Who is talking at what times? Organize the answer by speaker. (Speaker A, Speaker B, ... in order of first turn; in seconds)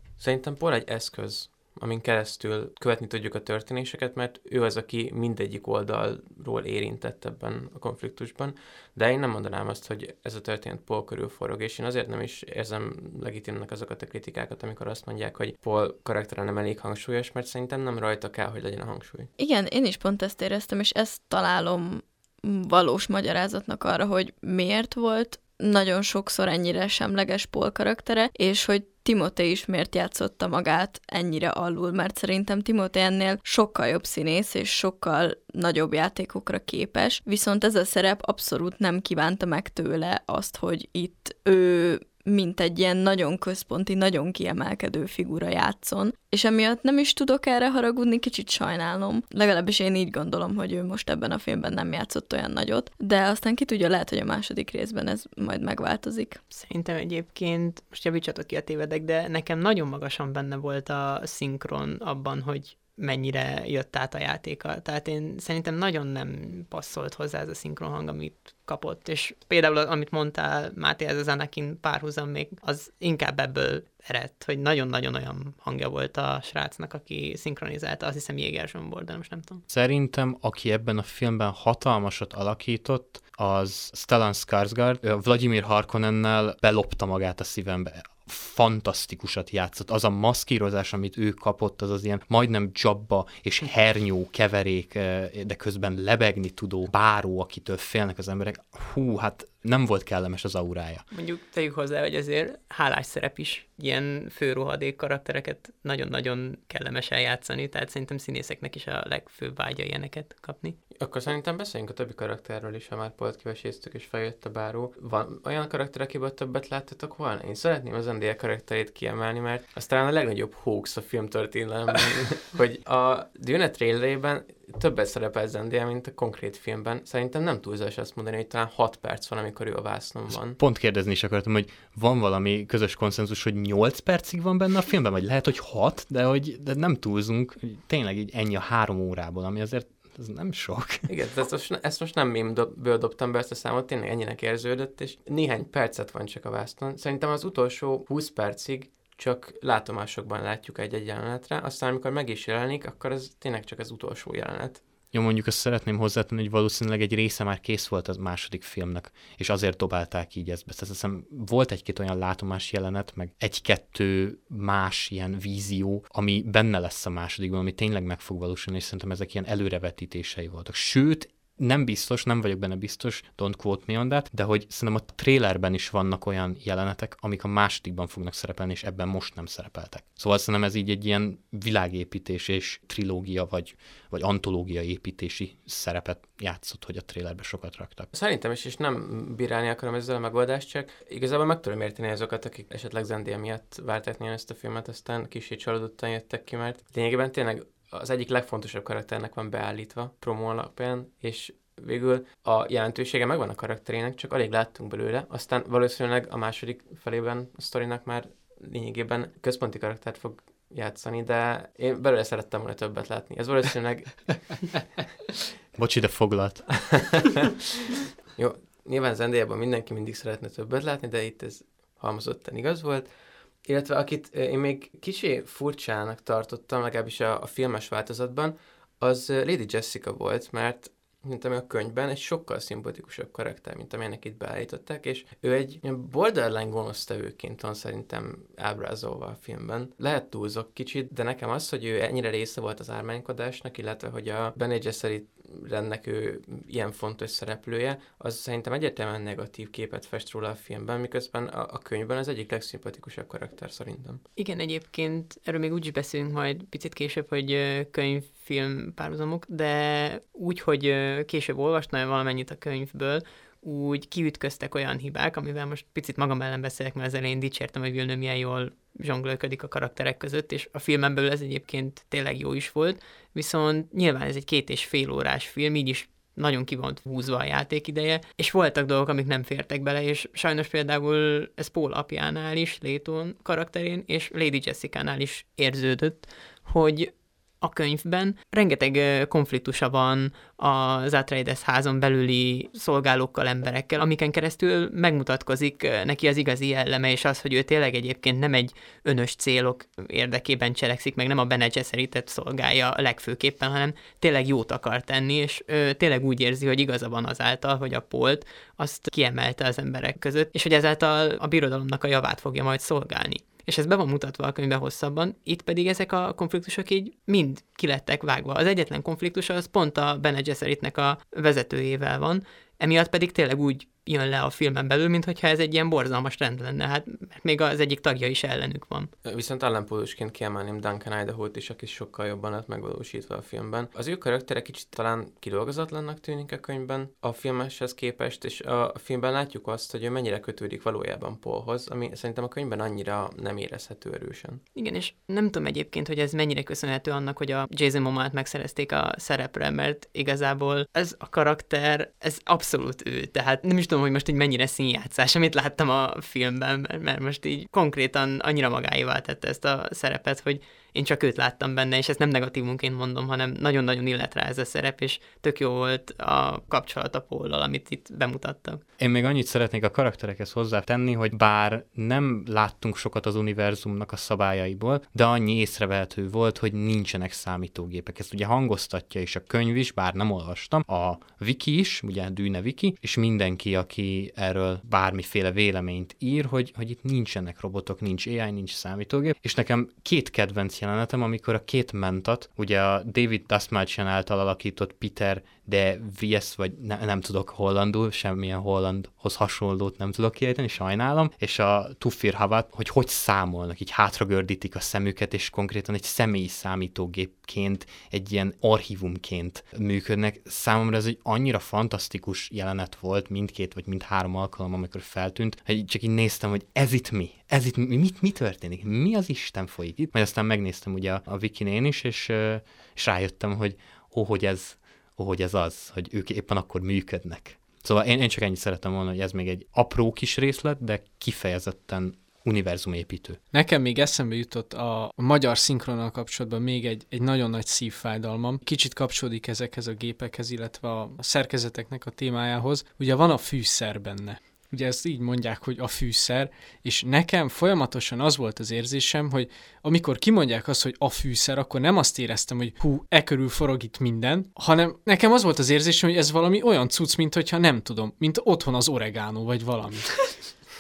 Speaker A: 0.2-19.3, 111.0-130.6, 141.1-154.8, 188.1-214.6, 216.9-217.5, 218.3-223.1, 223.7-254.2, 329.2-344.6
Speaker B: 19.4-56.4
Speaker C: 56.5-79.6, 101.1-110.8, 254.4-329.1, 344.8-368.8
Speaker D: 79.7-101.1, 130.6-141.1, 155.1-188.1, 215.8-217.2, 369.0-433.4
Speaker E: 433.5-460.3